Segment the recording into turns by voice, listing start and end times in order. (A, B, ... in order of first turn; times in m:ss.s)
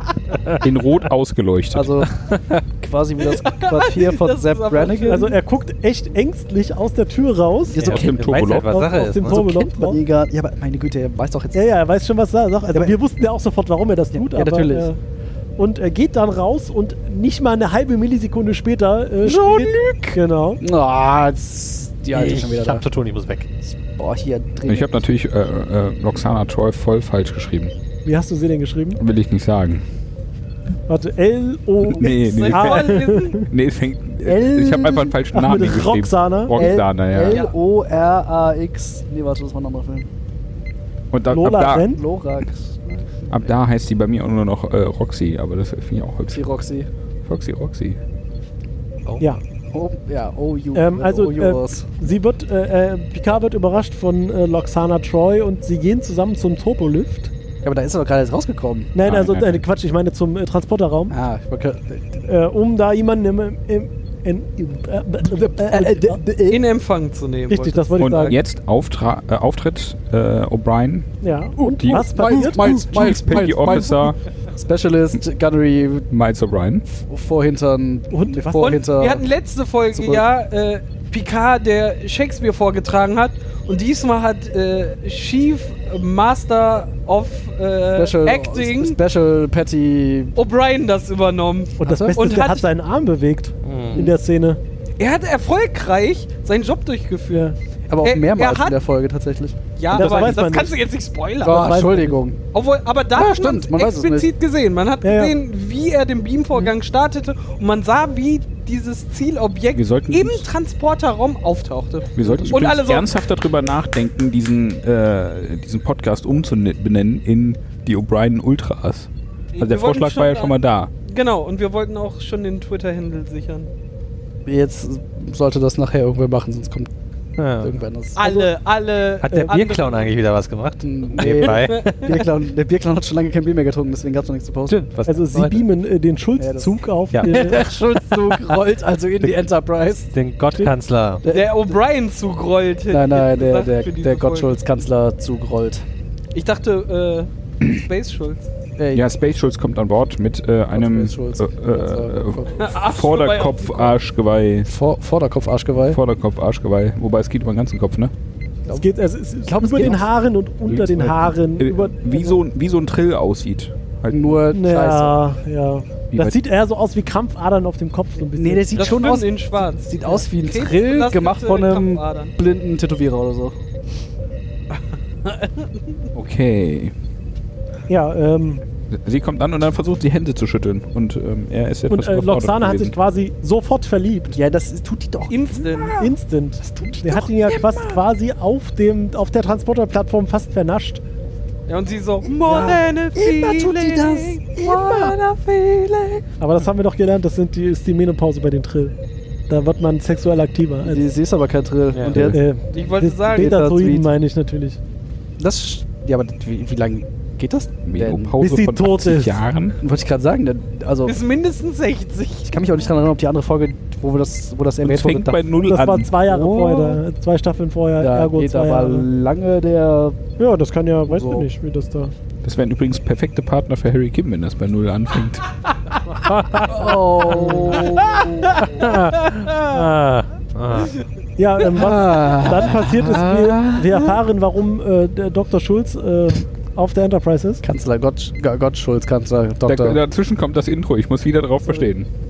0:00.6-0:02.0 A
0:01.7-0:02.1 B
0:02.2-0:02.6 C
0:02.7-0:05.3 B
0:03.2-0:05.4 D
0:05.1-0:07.8 E
0:07.7-0:08.3 B
0:07.8-0:09.4 C
0:07.8-0:08.7 A
0:08.6-0:10.0 E
0:09.2-0:11.6 B
0:11.5-0:15.0 E
0:14.1-0:14.9 B
0:15.6-0:20.6 E
0:19.2-0:22.8 B
0:22.1-0:23.5 C
0:23.8-0:25.0 B
0:24.6-0:27.7 A
0:28.0-0:29.0 E
0:29.0-0:29.8 A
0:30.9-0:33.5 E
0:31.9-0:37.4 A
0:32.3-0:33.4 D
0:34.3-0:36.8 E
0:36.5-0:40.1 B
0:37.3-0:37.5 D
0:41.1-0:41.9 A
0:41.3-0:42.0 E
0:41.9-0:43.5 B
0:43.3-0:46.4 A
0:46.3-0:46.9 B
0:47.2-0:48.0 A
0:49.7-0:51.9 B
0:50.7-0:57.3 E
0:57.6-0:58.9 B
0:58.9-1:01.1 E
0:59.0-0:59.6 A
1:01.1-1:02.2 B
1:02.2-1:06.3 E
1:05.2-1:06.6 B
1:06.5-1:08.4 D
1:07.5-1:08.4 E
1:08.0-1:14.2 A
1:11.2-1:13.2 E
1:11.8-1:16.1 B
1:16.1-1:16.8 A
1:16.9-1:19.2 B
1:18.1-1:18.8 E
1:18.6-1:29.0 D
1:19.9-1:20.2 B
1:28.0-1:30.3 B
1:30.4-1:32.6 D
1:31.8-1:34.6 E
1:33.6-1:34.1 C
1:35.0-1:37.4 D
1:37.9-1:40.2 B
1:38.0-1:38.8 D
1:39.8-1:41.8 D
1:39.9-1:40.8 E
1:40.0-1:40.3 A
1:41.4-1:42.4 B
1:41.4-1:42.2 E
1:42.5-1:53.0 D
1:43.1-1:44.3 B
1:45.0-1:45.3 E
1:49.7-1:50.5 A
1:52.1-2:00.9 A
1:52.2-1:52.5 B
1:59.5-2:03.7 D
2:04.4-2:06.9 B
2:07.4-2:07.8 C
2:07.6-2:08.2 B
2:08.2-2:10.1 D
2:08.2-2:08.5 E
2:09.2-2:12.2 C
2:10.8-2:14.8 B
2:11.2-2:12.2 D
2:14.7-2:15.6 C
2:15.0-2:17.7 E
2:16.4-2:20.1 B
2:17.1-2:18.6 C
2:20.1-2:21.2 C
2:21.2-2:21.8 B
2:21.3-2:24.6 D
2:22.9-2:25.8 B
2:26.3-2:28.4 D
2:28.8-2:29.0 B
2:28.9-2:34.7 A
2:30.7-2:32.7 B
2:32.6-2:34.0 D
2:34.7-2:36.0 B
2:35.8-2:38.1 A
2:38.7-2:42.4 E
2:39.4-2:40.1 B
2:40.7-2:44.4 A
2:44.1-2:45.2 B
2:44.5-2:49.0 E
2:48.4-2:53.5 B
2:48.7-2:52.3 D
2:55.2-2:55.7 D
2:56.1-2:56.9 A
2:57.9-2:58.6 E
2:58.9-3:02.9 A
3:01.9-3:04.4 E
3:04.3-3:08.0 B
3:05.3-3:06.0 D
3:06.0-3:11.0 E
3:11.7-3:15.8 D
3:12.2-3:15.2 B
3:15.8-3:16.2 B
3:16.4-3:18.9 E
3:19.5-3:21.1 E
3:20.8-3:22.4 B
3:21.9-3:22.3 C
3:22.3-3:24.8 E
3:22.7-3:23.5 D
3:23.4-3:24.1 B
3:25.4-3:28.3 B
3:27.8-3:29.8 A
3:28.4-3:29.4 E
3:29.8-3:31.2 B
3:31.0-3:32.5 D
3:32.5-3:35.4 B
3:34.8-3:36.1 A
3:35.6-3:39.1 E
3:36.2-3:37.0 B
3:38.0-3:40.2 B
3:40.4-3:42.1 E
3:41.1-3:41.4 B
3:42.4-3:45.4 A
3:46.5-3:48.2 E
3:46.6-3:48.7 B
3:47.8-3:48.5 D
3:48.6-3:50.9 C
3:48.7-3:50.1 E
3:49.2-3:49.7 D
3:51.4-3:57.6 E
3:51.7-3:54.2 B
3:57.6-4:00.0 B
3:59.6-4:02.1 A